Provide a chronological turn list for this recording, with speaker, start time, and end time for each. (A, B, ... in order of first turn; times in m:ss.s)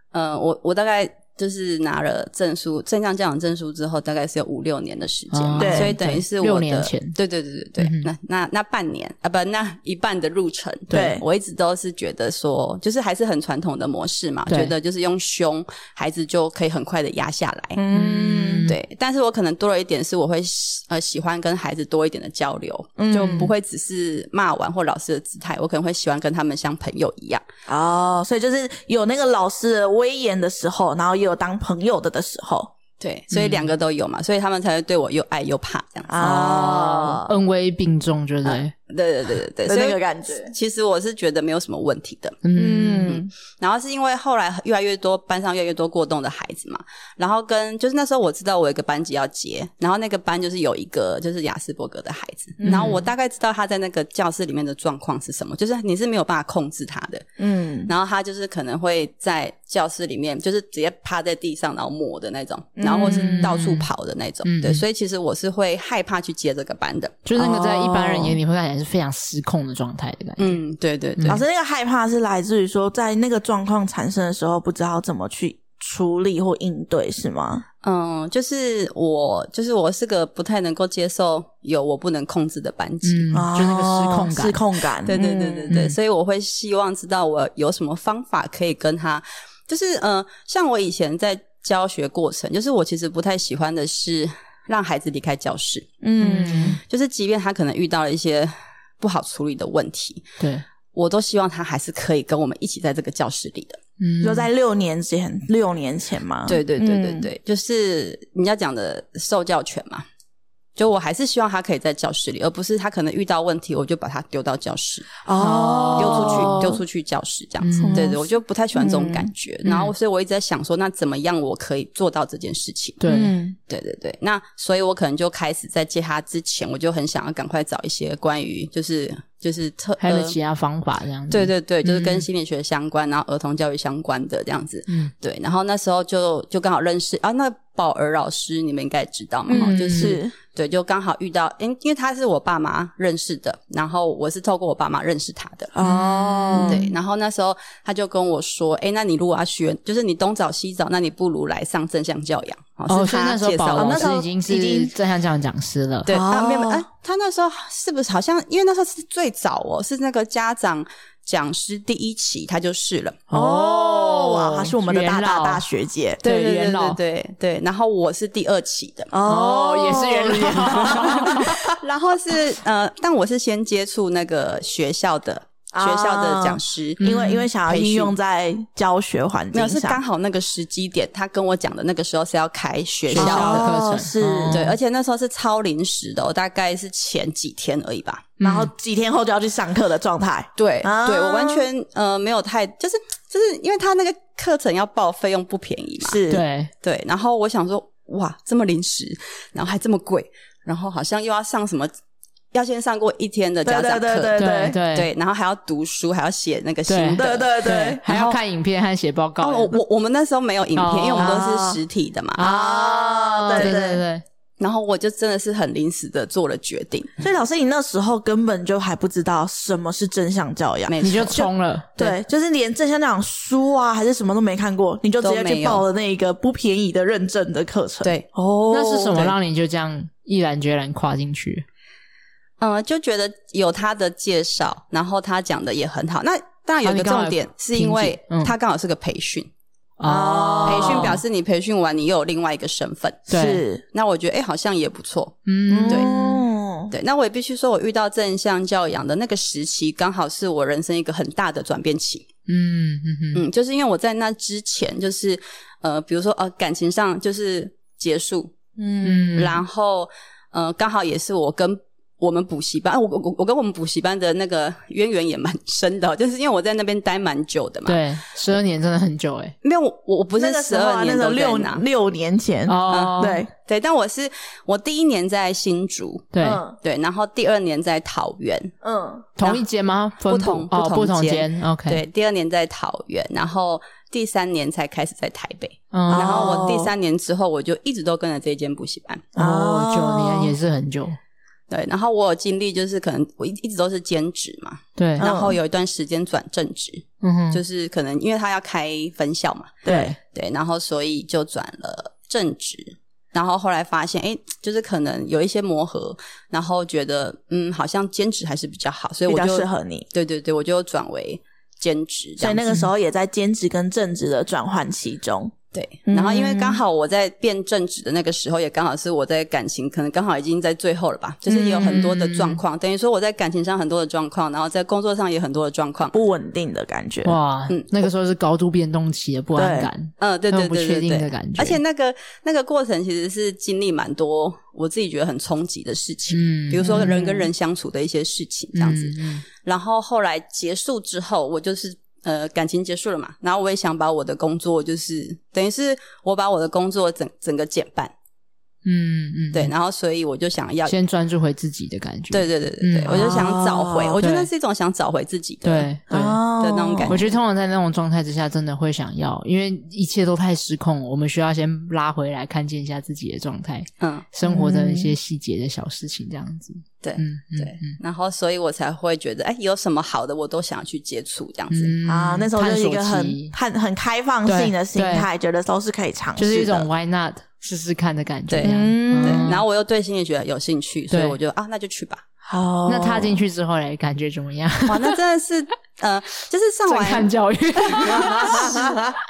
0:00.1-0:17.8 A
0:05.3-0:07.2 B
0:05.6-0:05.9 C
0:07.8-0:08.1 B
0:10.9-0:11.2 C
0:14.5-0:14.7 B
0:17.8-0:18.7 C
0:17.9-0:18.7 B
0:18.7-0:27.4 A
0:23.0-0:23.5 C
0:27.7-0:32.7 C
0:33.0-0:36.1 A
0:33.3-0:33.7 B
0:36.1-0:37.3 C
0:36.2-0:38.7 B
0:38.4-0:42.4 A
0:39.6-0:40.5 C
0:42.4-0:43.2 B
0:42.5-0:43.3 C
0:43.0-0:57.2 A
0:52.6-0:53.0 C
0:52.6-0:53.0 B
0:57.4-0:57.9 C
0:57.9-1:07.2 A
1:02.8-1:03.6 C
1:03.0-1:03.9 B
1:04.4-1:04.8 B
1:07.2-1:10.6 B
1:07.4-1:08.4 C
1:10.4-1:11.4 A
1:11.2-1:11.4 B
1:11.3-1:17.6 C
1:17.8-1:23.4 A
1:23.0-1:24.6 B
1:23.3-1:25.8 C
1:25.0-1:35.9 A
1:25.7-1:25.9 B
1:36.0-1:36.8 C
1:36.2-1:36.8 B
1:36.8-1:40.3 A
1:40.4-1:40.6 B
1:40.9-1:43.8 A
1:44.0-1:44.5 B
1:44.2-1:47.3 C
1:46.5-1:50.0 A
1:50.8-1:55.2 A
1:55.2-1:56.8 C
1:55.4-1:56.7 B
1:56.0-2:03.0 A
1:57.6-1:58.0 B
1:57.8-1:58.2 C
1:58.8-1:59.3 C
1:59.6-1:59.9 B
2:03.0-2:03.3 B
2:03.0-2:03.6 C
2:03.7-2:10.4 A
2:10.0-2:12.2 B
2:11.3-2:25.7 A
2:19.5-2:20.3 C
2:19.5-2:20.2 B
2:25.7-2:26.9 C
2:25.8-2:26.8 B
2:26.6-2:34.1 A
2:32.9-2:36.1 B
2:33.7-2:34.9 C
2:36.0-2:43.2 A
2:36.1-2:36.8 C
2:43.3-2:45.6 B
2:43.3-2:46.2 C
2:46.2-2:47.0 B
2:46.2-2:49.1 A
2:49.1-2:51.7 C
2:49.3-2:51.5 B
2:51.8-2:57.0 A
2:55.7-3:00.0 C
2:57.0-2:57.4 B
2:57.7-2:58.1 A
2:59.5-3:03.9 A
3:03.1-3:04.7 C
3:03.1-3:04.7 B
3:04.5-3:08.3 A
3:08.4-3:08.7 B
3:08.4-3:11.7 C
3:10.6-3:16.2 A
3:16.0-3:16.4 C
3:16.3-3:16.7 B
3:16.8-3:21.9 A
3:22.5-3:28.4 A
3:23.6-3:24.8 C
3:24.4-3:25.1 B
3:26.9-3:29.8 B
3:27.2-3:28.0 C
3:29.4-3:32.5 A
3:30.8-3:31.4 B
3:31.2-3:31.8 C
3:32.4-3:34.2 B
3:32.4-3:34.0 C
3:34.6-3:37.1 A
3:37.2-3:49.3 C
3:40.9-3:41.5 A
3:41.0-3:42.0 B
3:45.2-3:45.8 A
3:48.7-3:51.6 B
3:52.6-3:59.5 A
3:56.8-3:58.5 B
4:00.0-4:01.2 B
4:00.0-4:01.2 C
4:00.6-4:03.3 A
4:03.3-4:03.6 B
4:03.3-4:03.8 C
4:03.9-4:06.1 A
4:05.4-4:06.4 B
4:05.7-4:06.9 C
4:06.9-4:12.3 A
4:12.5-4:13.4 B
4:13.3-4:18.5 A
4:18.8-4:19.4 C
4:19.0-4:19.6 B
4:19.4-4:28.0 A
4:27.8-4:29.5 B
4:29.6-4:31.8 A
4:30.4-4:33.5 C
4:32.7-4:33.4 B
4:32.9-4:38.7 A
4:36.3-4:36.6 B
4:36.4-4:36.8 C
4:38.8-4:39.2 C
4:39.4-4:42.0 B
4:40.3-4:49.2 A
4:45.9-4:46.6 B
4:46.1-4:46.9 C
4:49.4-4:50.5 C
4:49.4-4:51.2 B
4:51.7-5:12.7 A
4:55.0-4:55.3 B
4:55.2-4:55.6 C
4:57.2-4:57.6 B
4:59.8-5:00.2 C
4:59.9-5:00.2 B
5:09.3-5:10.1 C
5:12.4-5:15.5 C
5:15.7-5:26.1 A
5:16.1-5:16.8 C
5:21.5-5:22.0 C
5:21.8-5:22.6 B
5:26.1-5:27.3 C
5:27.2-5:31.8 B
5:29.6-5:29.9 C
5:30.2-5:48.1 A
5:36.3-5:37.4 B
5:36.8-5:37.3 C
5:38.7-5:39.4 B
5:48.8-5:49.7 B
5:49.5-5:51.0 A
5:50.8-5:53.5 B
5:52.3-5:55.9 A
5:53.1-5:54.2 C
5:54.2-5:54.5 B
5:55.6-5:56.4 B
5:56.1-5:57.2 C
5:56.6-5:57.4 A
5:57.1-6:08.0 B
6:04.0-6:04.2 A
6:04.4-6:05.1 C
6:07.0-6:11.9 A
6:11.7-6:13.5 B
6:12.1-6:16.9 C
6:14.4-6:15.3 B
6:16.4-6:19.6 B
6:18.5-6:22.2 A
6:18.6-6:19.5 C
6:21.1-6:21.4 B
6:22.4-6:23.4 C
6:22.8-6:25.2 B
6:24.9-6:27.3 A
6:26.9-6:29.0 B
6:27.8-6:28.8 A
6:28.1-6:29.1 C